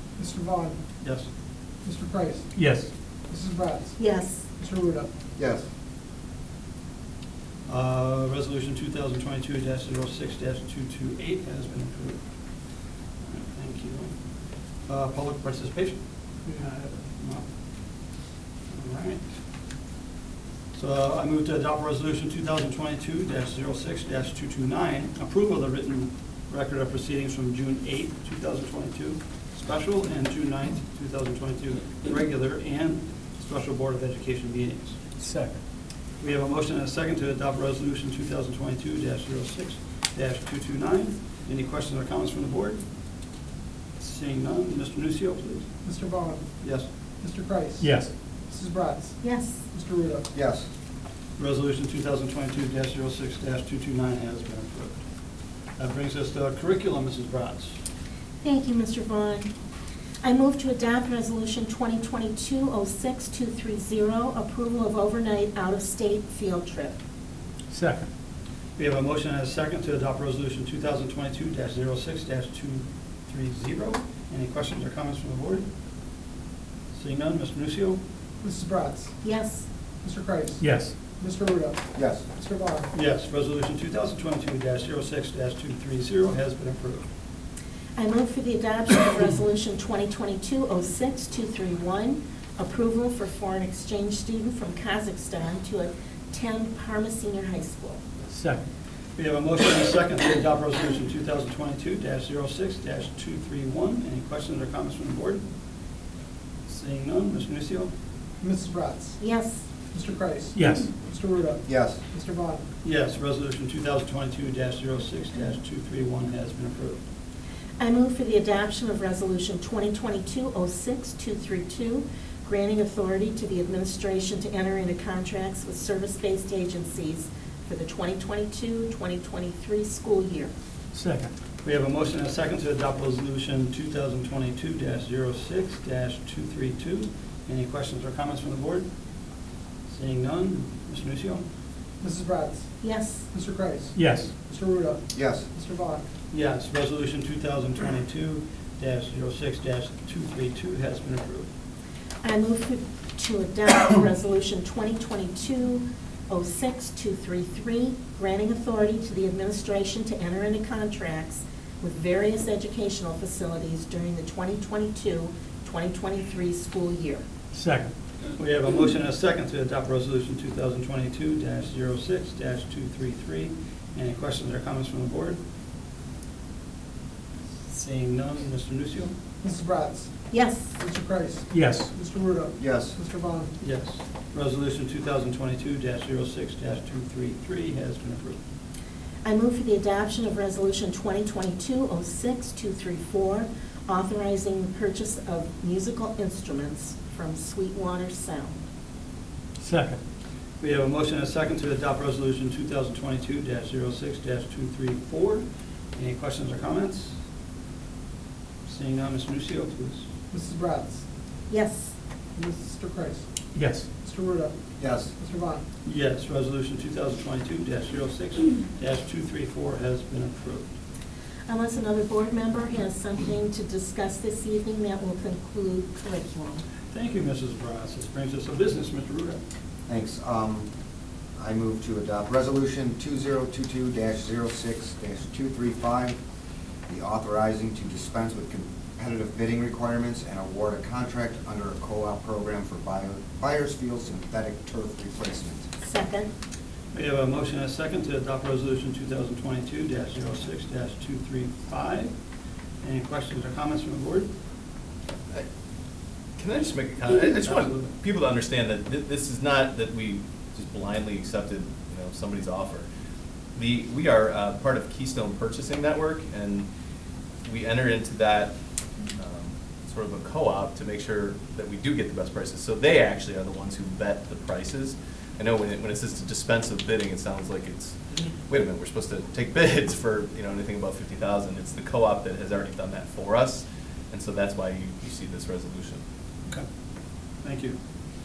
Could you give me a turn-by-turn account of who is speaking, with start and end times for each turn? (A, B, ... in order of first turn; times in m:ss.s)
0:00.2-0:00.8 A
0:01.0-0:01.3 B
0:01.8-0:02.5 A
0:02.5-0:02.9 C
0:03.3-0:04.0 A
0:04.0-0:04.4 D
0:04.6-0:05.1 A
0:05.4-0:05.6 E
0:07.7-0:12.2 B
0:13.2-0:14.1 B
0:14.8-0:16.0 B
0:16.6-0:17.5 B
0:18.7-0:19.2 B
0:20.7-0:35.0 B
0:35.2-0:35.6 C
0:36.2-0:42.8 B
0:44.0-0:45.6 B
0:45.8-0:46.4 A
0:46.6-0:46.8 B
0:47.2-0:47.9 A
0:47.8-0:48.1 C
0:48.5-0:49.2 A
0:49.2-0:49.6 D
0:49.7-0:50.3 A
0:50.3-0:50.7 E
0:51.4-0:55.0 B
0:55.8-0:57.8 B
0:58.4-0:59.5 D
1:00.2-1:07.0 D
1:07.7-1:08.1 C
1:08.8-1:15.6 B
1:16.9-1:18.0 B
1:18.4-1:19.2 A
1:19.2-1:19.6 D
1:20.0-1:20.6 A
1:20.6-1:20.9 C
1:21.2-1:22.9 A
1:21.9-1:22.2 E
1:22.9-1:27.0 B
1:28.0-1:38.0 D
1:38.3-1:38.6 C
1:39.2-1:45.4 B
1:46.7-1:47.9 B
1:48.4-1:49.2 A
1:49.2-1:49.6 D
1:49.9-1:52.6 A
1:50.5-1:50.9 C
1:51.6-1:52.0 E
1:52.8-1:57.0 B
1:57.8-2:10.5 D
2:10.9-2:11.3 C
2:11.6-2:18.9 B
2:19.9-2:21.4 B
2:22.0-2:22.8 A
2:22.8-2:23.3 D
2:23.3-2:26.0 A
2:23.9-2:24.3 C
2:25.1-2:25.5 E
2:26.3-2:31.5 B
2:32.2-2:47.2 D
2:47.5-2:47.9 C
2:48.4-2:55.4 B
2:57.7-2:59.1 B
2:59.4-3:00.2 A
3:00.3-3:00.7 D
3:00.8-3:03.5 A
3:01.5-3:01.9 C
3:02.6-3:03.0 E
3:03.6-3:08.4 B
3:09.2-3:18.6 D
3:19.6-3:20.0 C
3:20.6-3:27.1 B
3:28.6-3:30.0 B
3:30.3-3:31.0 A
3:31.5-3:31.9 D
3:32.3-3:33.2 A
3:33.5-3:33.9 C
3:33.9-3:34.6 A
3:34.8-3:35.1 E
3:35.2-3:35.6 A
3:35.8-3:40.6 B
3:41.5-3:46.6 D
3:46.9-3:49.4 B
3:49.9-3:50.7 E
3:51.4-3:56.2 E
3:56.9-4:05.6 E
4:05.8-4:06.3 D
4:06.9-4:12.1 B
4:12.8-4:14.3 B
4:16.4-4:22.9 F
4:17.3-4:17.9 B
4:23.5-4:26.7 F
4:27.4-4:28.5 F
4:29.2-4:46.0 F
4:47.4-4:47.8 B